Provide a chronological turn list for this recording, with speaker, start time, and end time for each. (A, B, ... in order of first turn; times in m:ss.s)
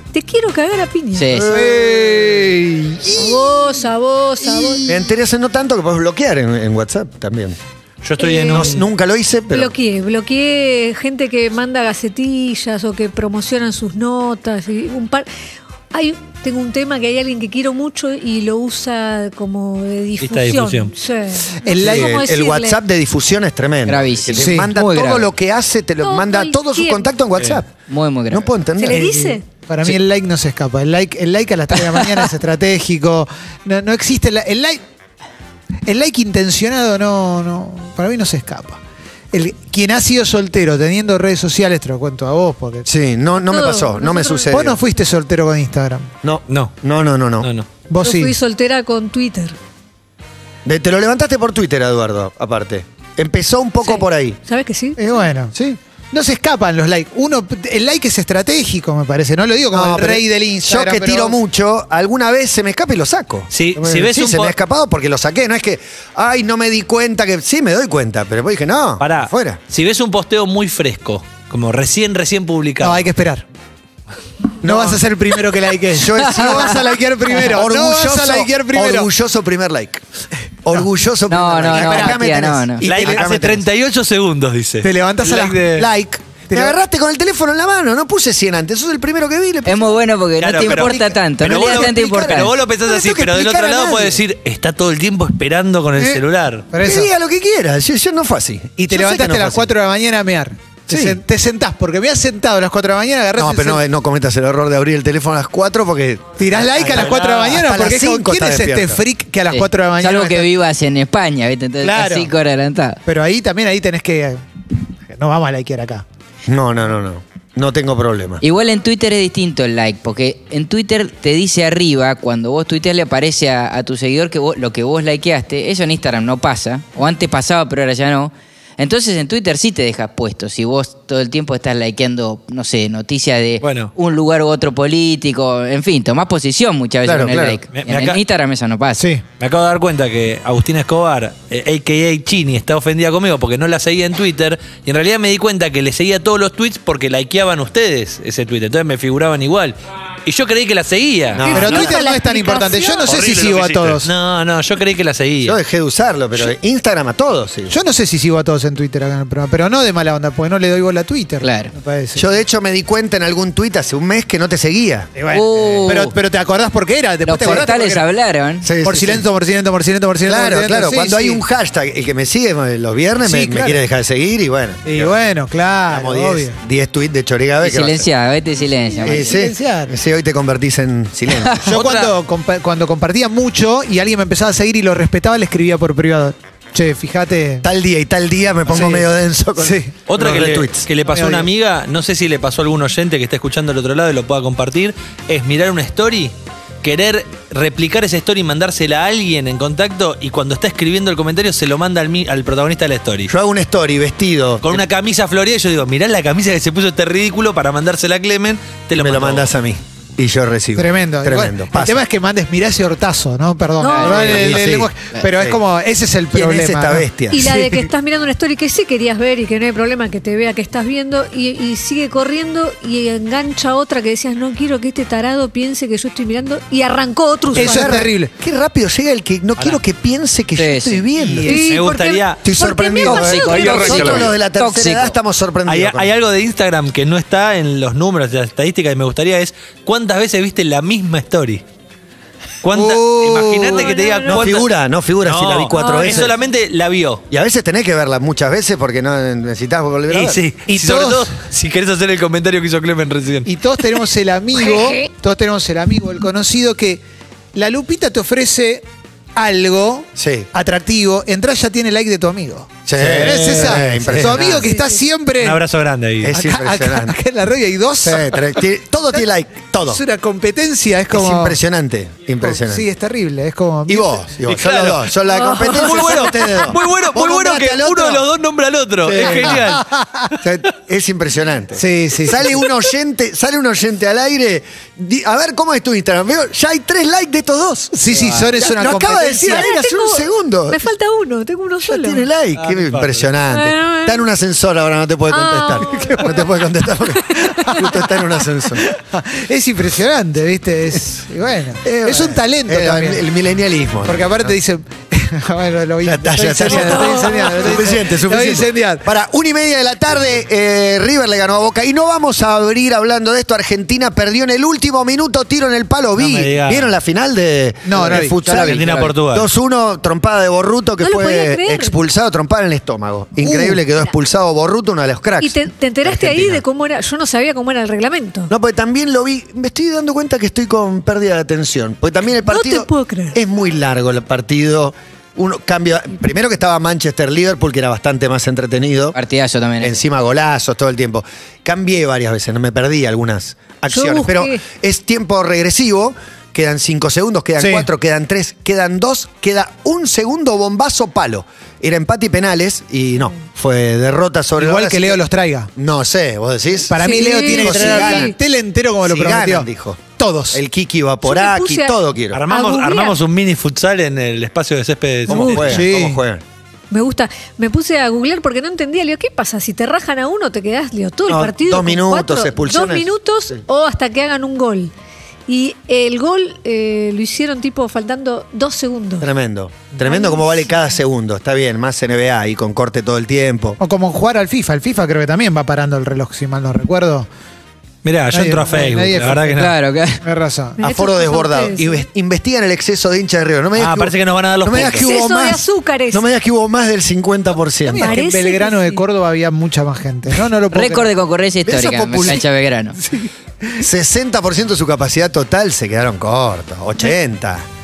0:00.1-0:01.3 A
0:01.1-0:01.5 B
0:01.3-0:02.0 C
0:01.5-0:03.8 D
0:03.1-0:04.9 A
0:04.4-0:05.0 D
0:04.8-0:07.6 C
0:08.0-0:08.8 E
0:08.2-0:08.8 A
0:08.4-0:09.7 C
0:09.5-0:15.3 A
0:15.9-0:22.8 A
0:20.2-0:20.9 E
0:21.6-0:22.1 D
0:21.8-0:27.7 C
0:23.8-0:25.3 B
0:24.4-0:24.7 D
0:26.0-0:27.1 A
0:27.9-0:28.5 B
0:28.3-0:29.1 C
0:28.8-0:29.4 A
0:28.9-0:34.8 D
0:35.8-0:38.8 D
0:39.3-0:42.9 D
0:42.8-0:44.8 C
0:43.4-0:44.5 A
0:44.5-0:46.1 D
0:46.2-0:47.5 C
0:47.4-0:47.7 E
0:47.9-0:48.3 D
0:48.0-0:49.6 A
0:50.6-0:54.4 C
0:53.8-0:55.2 A
0:55.0-0:55.8 C
0:55.0-0:55.5 D
0:56.1-1:01.4 D
0:59.7-1:09.6 C
1:03.5-1:04.5 E
1:09.0-1:13.1 E
1:12.8-1:13.4 D
1:14.6-1:15.0 C
1:14.6-1:19.1 D
1:15.9-1:20.0 C
1:20.6-1:23.6 C
1:21.3-1:22.8 B
1:21.7-1:22.2 D
1:22.8-1:25.9 E
1:23.0-1:23.3 D
1:24.8-1:26.8 D
1:26.5-1:30.0 C
1:29.6-1:32.5 B
1:30.4-1:36.6 E
1:30.7-1:34.2 C
1:36.0-1:37.1 D
1:36.8-1:39.7 C
1:38.8-1:43.8 D
1:40.9-1:41.2 C
1:43.4-1:49.0 C
1:46.4-1:50.5 D
1:46.7-1:47.6 E
1:49.5-1:53.0 B
1:51.8-1:52.3 D
1:53.0-1:56.0 D
1:56.5-1:58.4 C
1:58.4-2:19.1 B
2:13.6-2:13.9 E
2:17.0-2:17.6 C
2:17.7-2:18.2 E
2:19.0-2:19.2 D
2:19.4-2:31.9 E
2:31.3-2:31.7 C
2:31.5-2:34.1 D
2:31.5-2:33.1 A
2:33.0-2:35.6 E
2:35.4-2:37.8 C
2:37.7-2:42.2 D
2:41.4-2:41.7 B
2:42.2-2:45.1 C
2:45.2-2:48.0 D
2:45.3-2:46.1 B
2:47.2-2:48.7 B
2:47.4-2:47.6 C
2:48.6-2:49.2 C
2:48.8-2:51.4 D
2:50.2-2:55.1 C
2:53.2-2:53.8 D
2:54.8-2:56.6 D
2:55.9-2:58.1 C
2:57.6-2:59.4 B
2:58.9-2:59.9 D
2:59.0-3:01.6 C
3:01.6-3:07.6 D
3:01.7-3:02.1 E
3:07.6-3:10.9 C
3:08.7-3:09.1 D
3:09.6-3:11.5 D
3:10.1-3:23.3 E
3:23.3-3:24.8 C
3:24.6-3:29.5 E
3:29.0-3:32.0 C
3:30.8-3:37.8 D
3:33.8-3:34.4 A
3:33.8-3:34.4 B
3:34.1-3:35.6 C
3:36.3-3:37.4 C
3:37.3-3:48.0 A
3:47.5-3:51.5 C
3:47.5-3:48.3 D
3:50.6-3:51.0 B
3:51.4-3:52.4 E
3:51.4-3:54.2 A
3:52.4-3:56.1 C
3:53.0-3:55.2 B
3:53.4-3:54.3 E
3:55.6-4:01.6 E
4:02.6-4:04.7 E
4:02.7-4:04.0 D
4:03.7-4:04.5 A
4:04.3-4:06.3 C
4:05.2-4:07.2 E
4:05.7-4:06.2 A
4:07.3-4:10.4 C
4:10.1-4:13.5 E
4:10.7-4:11.3 D
4:13.4-4:17.0 D
4:17.5-4:18.8 D
4:19.4-4:25.6 D
4:20.2-4:20.5 C
4:22.8-4:24.7 C
4:23.0-4:24.5 E
4:24.7-4:25.0 A
4:25.4-4:26.4 E
4:26.2-4:27.2 C
4:26.3-4:29.2 D
4:28.0-4:30.0 C
4:29.8-4:31.6 D
4:31.1-4:32.8 C
4:32.4-4:34.2 D
4:33.9-4:38.2 C
4:34.4-4:39.9 E
4:39.0-4:39.6 C
4:39.2-4:40.3 D
4:40.4-4:47.9 C
4:41.8-4:42.7 D
4:47.9-4:49.7 D
4:48.1-4:48.5 B
4:48.6-4:50.9 C
4:49.4-4:52.2 A
4:51.8-4:58.8 C
4:52.6-4:53.3 E
4:53.5-4:54.2 A
4:55.3-4:56.4 A
4:57.3-4:57.8 A
4:57.5-5:03.2 D
5:01.8-5:04.5 C
5:04.0-5:09.0 D
5:06.0-5:26.6 C
5:06.6-5:07.4 A
5:16.2-5:16.9 E
5:17.8-5:18.4 D
5:18.4-5:19.2 B
5:18.6-5:19.5 E
5:21.0-5:21.9 A
5:23.4-5:23.8 D
5:25.4-5:28.5 A
5:28.5-5:39.2 C
5:32.5-5:33.4 A
5:39.1-5:40.0 B
5:39.8-5:55.2 C
5:43.9-5:44.6 A
5:47.6-5:47.9 D
5:54.6-5:55.7 D
5:55.8-5:58.3 C
5:56.9-6:00.6 D
5:57.0-5:58.4 A
5:59.0-6:00.0 C
6:00.5-6:02.4 C
6:01.2-6:02.0 A
6:02.3-6:05.9 E
6:02.5-6:03.2 A
6:05.3-6:06.4 C
6:05.3-6:05.6 A
6:05.6-6:06.2 D
6:06.9-6:14.9 A
6:11.3-6:13.1 C
6:15.5-6:19.3 A
6:19.2-6:23.8 C
6:20.0-6:20.8 A
6:23.8-6:27.3 D
6:28.0-6:29.7 E
6:28.3-6:29.7 D
6:29.5-6:30.2 B
6:30.2-6:30.8 D
6:30.8-6:32.0 A
6:30.8-6:38.2 C
6:33.8-6:35.1 E
6:34.8-6:36.2 A
6:37.9-6:41.1 D
6:38.0-6:39.0 A
6:40.7-6:43.0 B
6:41.6-6:42.4 C
6:43.0-6:43.3 D
6:43.8-6:47.6 C